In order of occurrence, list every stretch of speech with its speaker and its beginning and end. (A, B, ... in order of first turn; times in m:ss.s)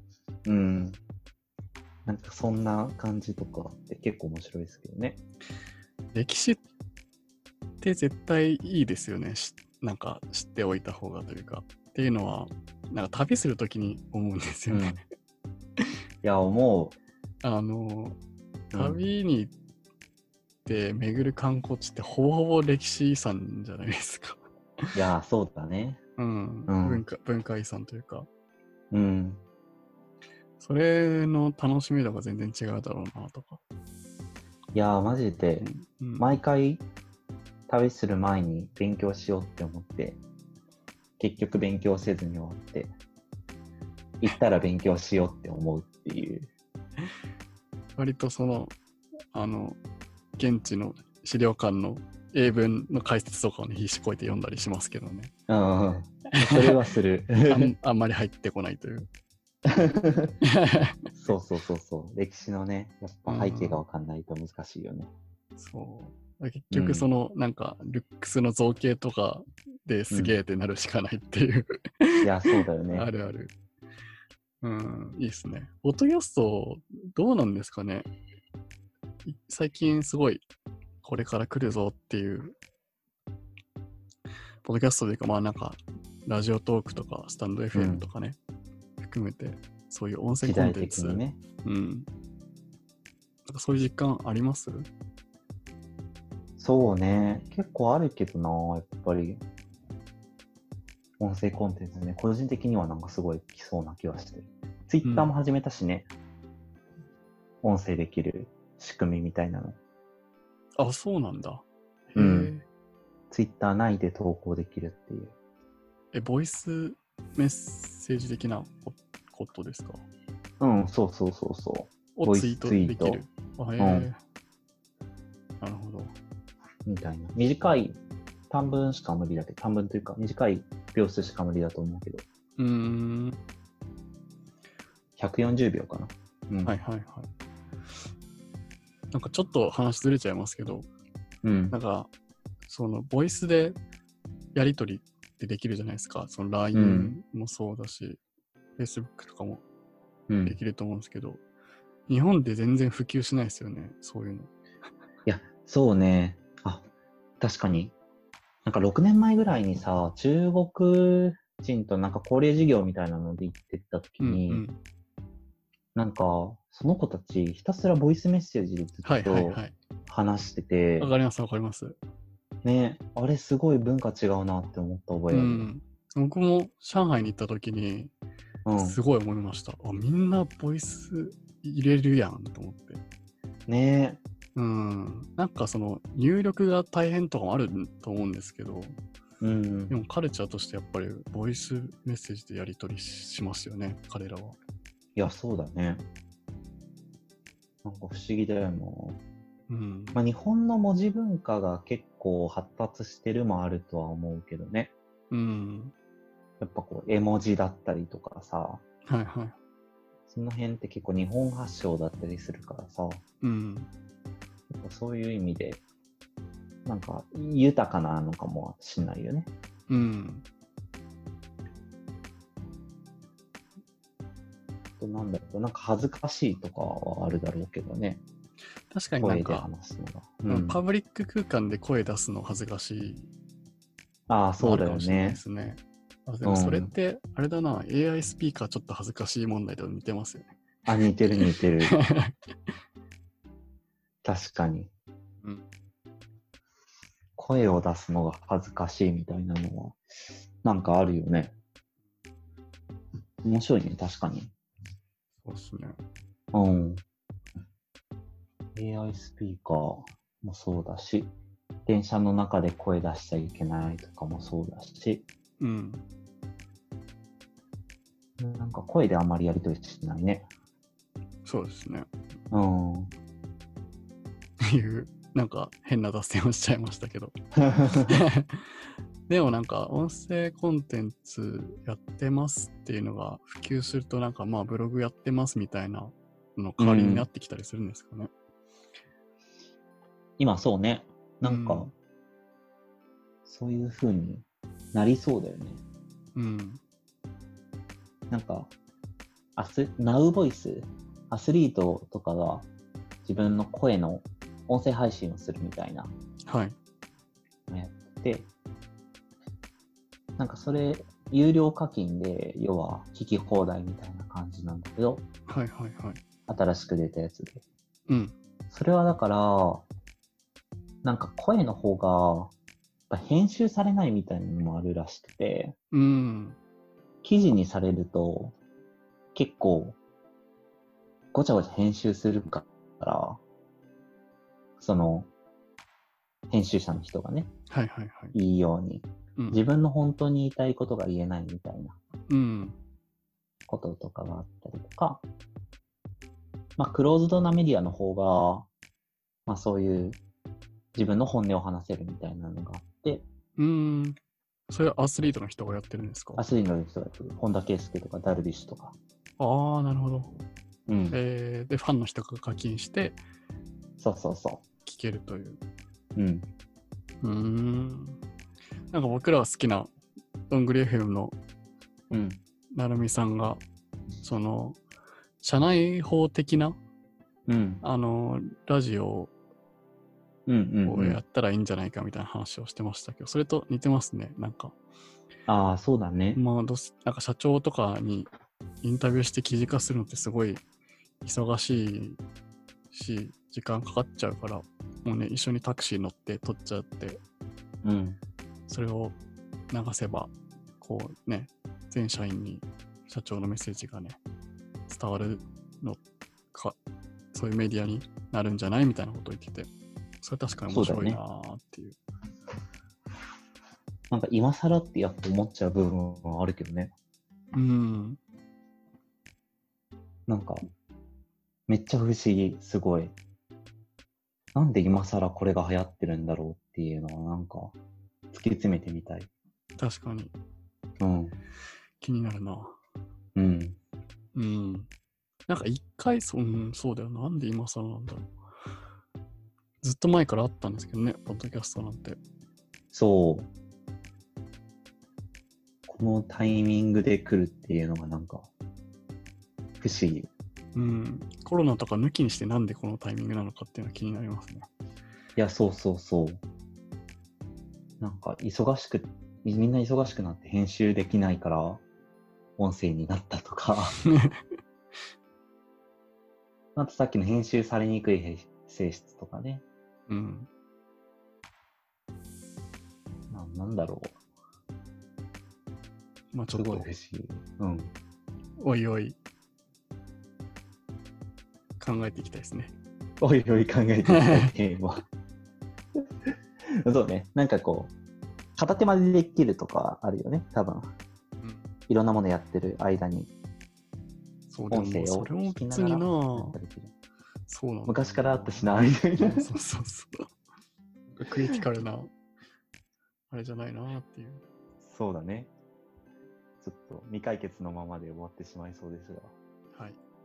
0:00.4-0:01.0 A
0:02.0-0:05.2 A
0:06.1-0:06.6 B
0:07.8-0:15.0 B
0:14.7-0:15.0 A
0:16.2-0:17.0 A
0:17.4-0:18.2 B
0:18.7-0:19.0 A
0:18.7-0:19.5 B
0:20.6-0:24.9 B
0:24.9-0:26.0 A
0:26.2-0:28.3 B
0:26.7-0:27.0 A
0:28.9-0:29.4 A
0:30.6-0:33.6 B
0:34.7-0:36.8 A
0:35.6-0:36.4 B
0:37.7-0:40.2 A
0:41.2-0:42.9 A
0:44.2-0:46.5 A
0:48.0-0:48.8 B
0:49.3-0:49.8 B
0:50.4-0:55.3 B
0:55.5-0:57.7 A
0:56.4-0:56.8 B
0:57.4-0:59.1 B
0:59.7-1:00.4 A
1:00.4-1:01.3 B
1:01.2-1:05.1 A
1:03.3-1:03.8 B
1:05.6-1:13.5 B
1:06.7-1:07.1 A
1:10.1-1:10.4 A
1:12.2-1:13.1 A
1:14.6-1:18.1 B
1:19.2-1:20.4 B
1:21.0-1:22.6 B
1:24.6-1:28.4 B
1:27.7-1:28.1 A
1:29.0-1:32.1 B
1:30.4-1:31.4 A
1:33.4-1:34.9 B
1:36.6-1:39.4 A
1:41.2-1:46.1 A
1:45.0-1:45.3 B
1:47.6-1:49.8 A
1:50.8-1:52.6 B
1:52.1-1:52.5 A
1:53.3-1:55.3 A
1:56.1-2:00.0 B
2:00.6-2:03.2 A
2:02.2-2:04.2 B
2:03.8-2:04.1 A
2:05.6-2:06.1 B
2:06.8-2:08.0 A
2:08.5-2:12.2 A
2:12.6-2:13.4 B
2:15.2-2:16.8 A
2:16.6-2:17.3 B
2:19.1-2:20.9 B
2:21.4-2:21.8 A
2:21.7-2:22.1 B
2:22.6-2:23.8 B
2:24.5-2:28.2 B
2:26.7-2:27.2 A
2:28.8-2:29.6 B
2:30.3-2:30.6 A
2:30.4-2:31.4 B
2:32.1-2:34.5 B
2:35.2-2:36.8 A
2:37.4-2:37.9 A
2:38.6-2:44.6 A
2:44.2-2:44.8 B
2:46.0-2:51.1 A
2:49.0-2:49.8 B
2:51.0-2:52.0 B
2:52.6-2:55.7 A
2:55.3-2:58.1 B
2:58.6-2:59.0 A
2:58.8-3:03.0 B
3:03.7-3:04.2 A
3:04.5-3:09.0 B
3:09.4-3:10.0 A
3:09.9-3:14.6 B
3:15.2-3:16.0 A
3:17.8-3:19.2 A
3:19.7-3:20.2 B
3:20.1-3:24.9 A
3:25.3-3:25.9 B
3:26.6-3:28.8 A
3:29.0-3:29.6 B
3:30.3-3:33.2 A
3:33.4-3:33.9 B
3:34.7-3:35.8 A
3:36.8-3:39.5 A
3:39.9-3:40.4 B
3:45.0-3:48.2 A
3:48.9-3:49.7 B
3:49.2-3:50.8 A
3:50.5-3:53.3 B
3:54.3-3:55.4 A
3:54.6-4:00.5 B
3:56.4-3:56.9 A
4:00.9-4:01.9 A
4:01.3-4:02.3 B
4:04.2-4:04.9 A
4:07.4-4:10.0 A
4:10.6-4:11.5 A
4:13.4-4:14.5 A
4:15.4-4:16.0 B
4:16.5-4:17.0 A
4:18.8-4:21.3 A
4:21.8-4:25.2 A
4:25.6-4:26.0 B
4:28.4-4:30.5 A
4:31.4-4:32.1 B
4:32.5-4:33.1 A
4:34.6-4:37.3 B
4:37.6-4:38.1 A
4:37.8-4:38.7 B
4:39.3-4:48.3 B
4:46.8-4:47.3 A
4:50.4-4:51.9 A
4:51.4-4:51.9 B
4:53.4-4:55.8 A
4:56.3-4:56.8 B
4:58.3-4:58.7 A
4:59.6-5:02.7 A
5:03.2-5:06.1 A
5:06.5-5:06.8 B
5:07.7-5:08.5 A
5:10.4-5:15.2 A
5:15.5-5:16.2 B
5:16.5-5:17.6 A
5:18.1-5:18.3 B
5:18.7-5:19.9 A
5:21.0-5:22.5 A
5:23.1-5:25.7 A
5:25.9-5:26.6 B
5:27.2-5:28.5 A
5:29.3-5:30.0 A
5:31.3-5:33.4 A
5:34.8-5:35.3 A
5:36.5-5:37.5 A
5:37.7-5:38.4 B
5:38.3-5:42.0 A
5:42.3-5:42.8 B
5:43.7-5:45.2 A
5:46.8-5:48.7 A
5:49.5-5:50.2 A
5:50.9-5:53.2 A
5:53.6-5:54.2 B
5:54.7-5:56.4 B
5:56.4-5:58.9 A
5:59.4-6:00.4 B
6:00.9-6:01.2 A
6:01.1-6:03.2 B
6:04.0-6:04.6 A
6:04.8-6:05.6 B
6:06.2-6:06.5 A
6:07.2-6:08.2 B
6:08.9-6:09.9 B
6:10.5-6:11.4 B
6:12.1-6:12.4 A
6:12.7-6:13.6 B
6:14.2-6:14.8 B
6:15.4-6:16.8 B
6:17.5-6:17.8 A
6:17.8-6:19.3 B
6:20.5-6:21.2 A
6:20.9-6:24.8 B
6:25.5-6:26.4 A
6:26.3-6:28.3 B
6:28.8-6:30.6 B
6:31.2-6:32.2 B
6:32.9-6:37.2 B
6:37.8-6:38.2 A
6:38.7-6:39.2 B
6:39.7-6:44.2 B
6:44.9-6:46.0 B
6:47.3-6:49.7 B
6:50.2-6:52.0 B
6:50.7-6:51.2 A
6:54.1-6:56.9 A
6:57.5-6:58.2 B
7:00.3-7:00.6 A
7:01.7-7:03.1 A
7:04.5-7:07.7 A
7:08.3-7:09.3 A
7:09.8-7:10.3 B
7:11.0-7:11.4 A
7:12.0-7:12.8 B
7:13.4-7:13.8 A
7:14.3-7:14.9 B
7:15.5-7:18.3 B
7:19.8-7:22.2 B
7:22.9-7:23.5 A
7:25.9-7:28.5 A
7:29.8-7:30.3 A
7:30.7-7:34.7 B
7:35.4-7:36.4 A
7:38.0-7:41.8 A
7:42.6-7:44.0 A
7:44.0-7:44.4 B
7:46.8-7:49.6 A
7:50.1-7:50.5 B
7:53.3-7:54.2 A
7:56.3-7:56.9 B
7:56.5-7:57.9 A
7:58.6-7:59.2 B
8:01.8-8:02.7 B
8:03.2-8:05.0 A
8:04.1-8:04.5 B
8:06.8-8:07.9 A
8:08.6-8:10.9 A
8:11.4-8:11.7 B
8:11.9-8:13.3 A
8:14.5-8:16.6 B
8:14.7-8:16.9 A
8:17.5-8:20.2 B
8:17.9-8:19.5 A
8:21.1-8:22.1 B
8:23.3-8:24.4 B
8:24.8-8:25.5 A
8:26.6-8:29.3 A
8:29.7-8:30.0 B